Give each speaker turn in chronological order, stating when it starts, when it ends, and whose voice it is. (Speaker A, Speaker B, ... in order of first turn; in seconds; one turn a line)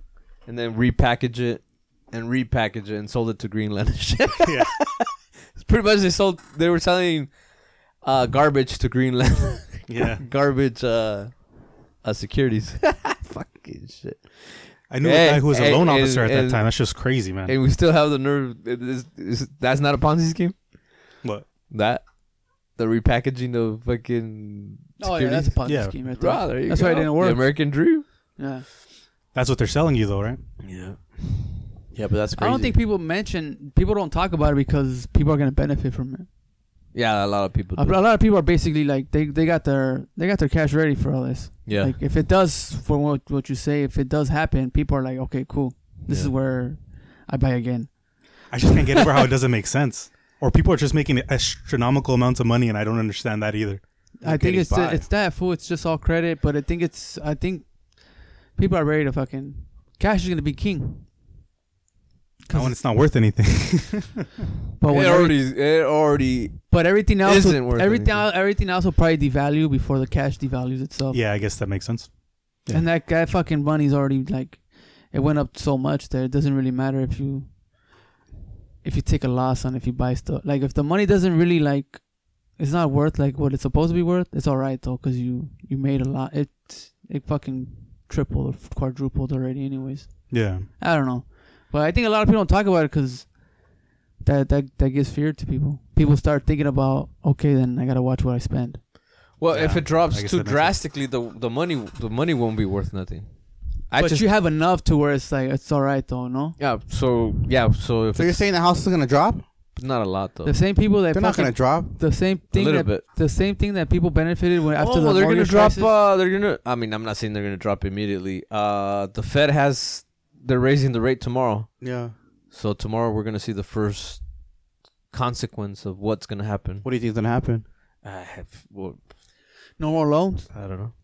Speaker A: 0.5-20.7
Speaker B: 4.4-4.7
Speaker B: 9.9-10.2
Speaker B: 14.9-17.5
Speaker A: 21.7-22.1
Speaker A: 22.6-28.1
Speaker C: 25.0-28.6
Speaker B: 25.6-26.0
Speaker B: 29.3-30.4
Speaker A: 30.6-31.6
Speaker D: 31.9-32.8
Speaker C: 32.4-36.3
Speaker A: 36.9-38.0
Speaker C: 37.8-49.0
Speaker A: 41.6-42.0
Speaker A: 46.1-46.3
Speaker B: 48.5-53.8
Speaker D: 54.2-55.1
Speaker C: 54.2-61.1
Speaker C: 62.5-62.8
Speaker B: 62.5-64.3
Speaker C: 64.8-65.5
Speaker A: 64.9-68.3
Speaker C: 66.7-71.3
Speaker B: 71.1-72.8
Speaker C: 72.7-77.6
Speaker C: 78.8-98.9
Speaker B: 90.3-90.7
Speaker A: 99.4-104.3
Speaker B: 99.5-100.8
Speaker C: 103.9-106.6
Speaker A: 106.6-108.5
Speaker D: 108.1-109.5
Speaker A: 109.7-110.6
Speaker C: 110.4-115.9
Speaker D: 111.1-112.0
Speaker A: 112.5-113.0
Speaker A: 114.8-124.3
Speaker D: 121.8-122.1
Speaker A: 125.1-126.9
Speaker D: 126.8-127.7
Speaker A: 128.0-129.1
Speaker C: 129.8-130.5
Speaker A: 130.5-130.9